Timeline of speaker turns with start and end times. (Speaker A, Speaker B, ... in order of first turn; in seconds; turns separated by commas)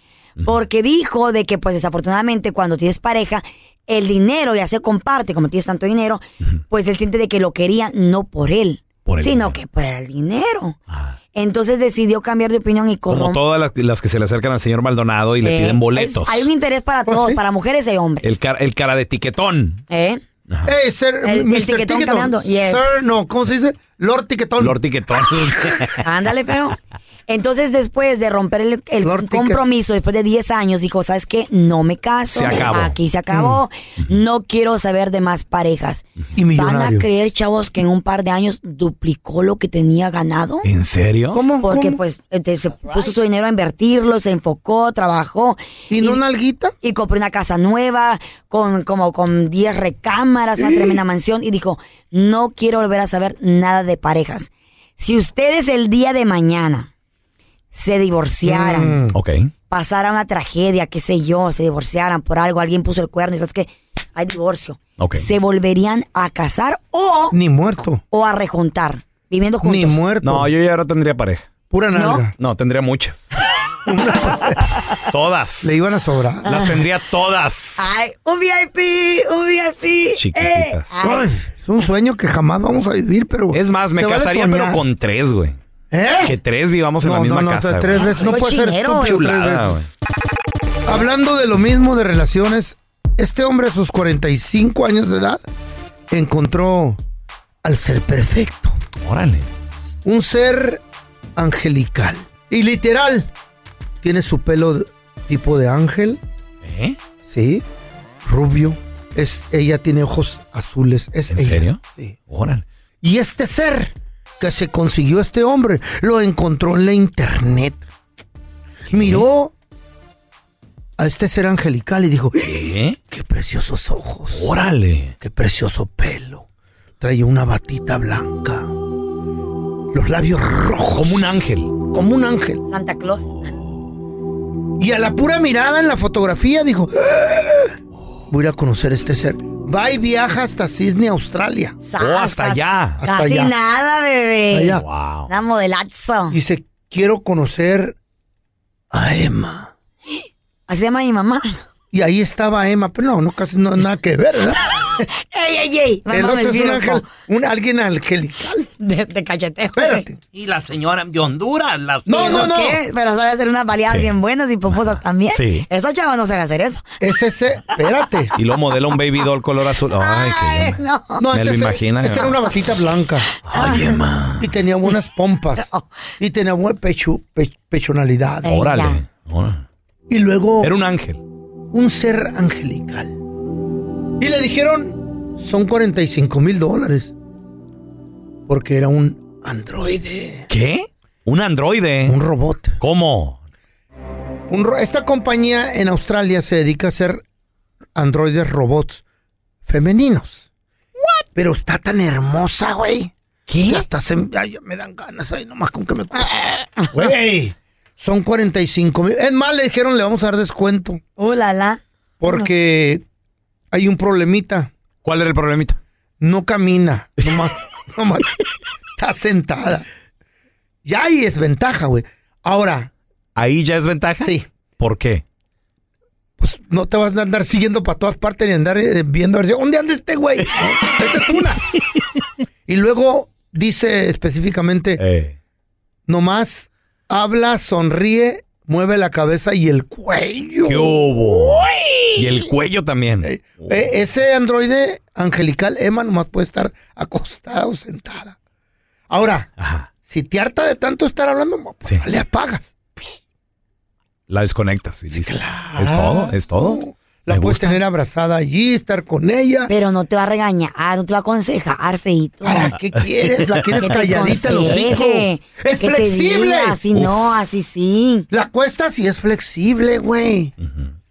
Speaker A: 0.4-10.8, Speaker B: 9.1-9.6, Speaker A: 11.3-13.4, Speaker B: 13.1-16.5, Speaker A: 15.4-18.4, Speaker C: 17.1-17.4, Speaker B: 18.2-19.8, Speaker A: 19.9-20.2, Speaker C: 20.7-25.5, Speaker A: 21.2-22.9, Speaker B: 24.6-26.0, Speaker A: 26.0-26.8, Speaker A: 27.3-40.7, Speaker C: 29.0-29.6, Speaker B: 32.3-33.0, Speaker C: 33.3-33.6, Speaker C: 36.4-37.0, Speaker B: 40.6-41.4, Speaker C: 41.3-42.0, Speaker A: 41.6-46.2, Speaker C: 45.9-46.7, Speaker A: 46.8-56.9, Speaker C: 50.6-51.0, Speaker A: 57.7-59.0, Speaker C: 58.5-59.2, Speaker B: 59.1-59.5, Speaker A: 59.7-67.4, Speaker B: 65.0-65.3, Speaker C: 67.3-68.0, Speaker A: 68.1-70.0, Speaker C: 69.6-70.5, Speaker B: 70.2-71.5, Speaker C: 71.7-72.3, Speaker A: 72.0-72.2, Speaker B: 72.4-73.3, Speaker C: 73.8-74.7, Speaker B: 74.9-75.8, Speaker C: 75.6-76.5, Speaker A: 76.5-76.9, Speaker B: 76.5-77.9, Speaker A: 77.8-81.3, Speaker B: 80.2-80.8, Speaker C: 81.0-84.8, Speaker B: 83.5-85.6, Speaker C: 85.9-86.4, Speaker B: 86.2-87.9, Speaker C: 87.0-89.8, Speaker A: 87.9-89.2, Speaker B: 88.9-89.8, Speaker C: 90.8-95.4, Speaker C: 96.1-97.0, Speaker C: 97.6-98.8, Speaker B: 99.0-99.5, Speaker C: 100.0-100.8, Speaker C: 101.3-103.3, Speaker C: 104.0-106.2, Speaker B: 106.6-107.0, Speaker C: 107.2-107.6, Speaker C: 108.2-112.2, Speaker B: 111.3-112.7, Speaker C: 113.0-117.8, Speaker B: 118.9-119.2, Speaker C: 118.9-119.5, Speaker C: 121.0-122.5, Speaker B: 122.4-123.0, Speaker C: 123.1-124.5, Speaker B: 124.3-125.1, Speaker C: 125.2-126.5, Speaker C: 127.0-128.7, Speaker C: 129.9-132.6, Speaker B: 130.9-131.7, Speaker A: 132.7-133.3, Speaker C: 134.8-137.7, Speaker C: 138.3-141.8, Speaker A: 141.8-146.4, Speaker B: 142.0-143.0, Speaker C: 143.0-143.5, Speaker C: 144.5-144.8, Speaker B: 144.8-145.3, Speaker C: 146.3-148.0, Speaker C: 148.9-149.7, Speaker A: 150.7-151.6, Speaker C: 151.9-154.6, Speaker A: 155.0-157.1, Speaker C: 156.1-158.7, Speaker A: 158.8-160.0, Speaker C: 159.8-160.2, Speaker B: 160.3-162.3, Speaker C: 162.1-162.8, Speaker A: 162.1-166.8, Speaker B: 164.7-165.7, Speaker C: 167.0-168.3, Speaker B: 168.3-170.8, Speaker A: 170.0-171.2, Speaker C: 171.2-173.3, Speaker B: 171.3-172.4, Speaker A: 173.5-174.0, Speaker B: 173.5-174.5, Speaker C: 174.4-175.7, Speaker A: 175.6-175.8, Speaker C: 176.2-178.5, Speaker A: 178.4-179.0, Speaker B: 178.5-179.6, Speaker C: 180.1-180.7, Speaker B: 180.6-181.2, Speaker C: 181.7-183.2, Speaker C: 184.2-187.1, Speaker C: 188.5-190.5, Speaker B: 190.5-192.2, Speaker C: 192.1-192.8, Speaker B: 192.8-193.4, Speaker C: 194.5-197.2, Speaker C: 197.9-199.0, Speaker C: 199.7-200.5, Speaker C: 201.3-203.1, Speaker A: 203.5-203.8, Speaker C: 203.6-211.0, Speaker A: 211.2-212.5, Speaker C: 212.2-213.0, Speaker C: 213.7-214.7, Speaker B: 215.0-215.8, Speaker C: 216.2-218.3, Speaker C: 219.0-219.8, Speaker C: 220.8-222.9, Speaker B: 223.3-225.2, Speaker C: 224.2-224.5, Speaker C: 226.4-231.7, Speaker C: 232.7-235.0, Speaker B: 235.0-235.3, Speaker C: 236.1-242.2, Speaker B: 240.7-243.8, Speaker C: 243.2-248.3, Speaker C: 249.1-249.5, Speaker B: 249.6-249.9, Speaker C: 250.0-252.7, Speaker B: 254.3-257.8, Speaker C: 255.1-259.7, Speaker A: 259.7-262.8, Speaker C: 262.4-266.8, Speaker A: 263.8-268.3, Speaker B: 266.9-267.3, Speaker C: 268.3-270.5, Speaker B: 270.6-270.9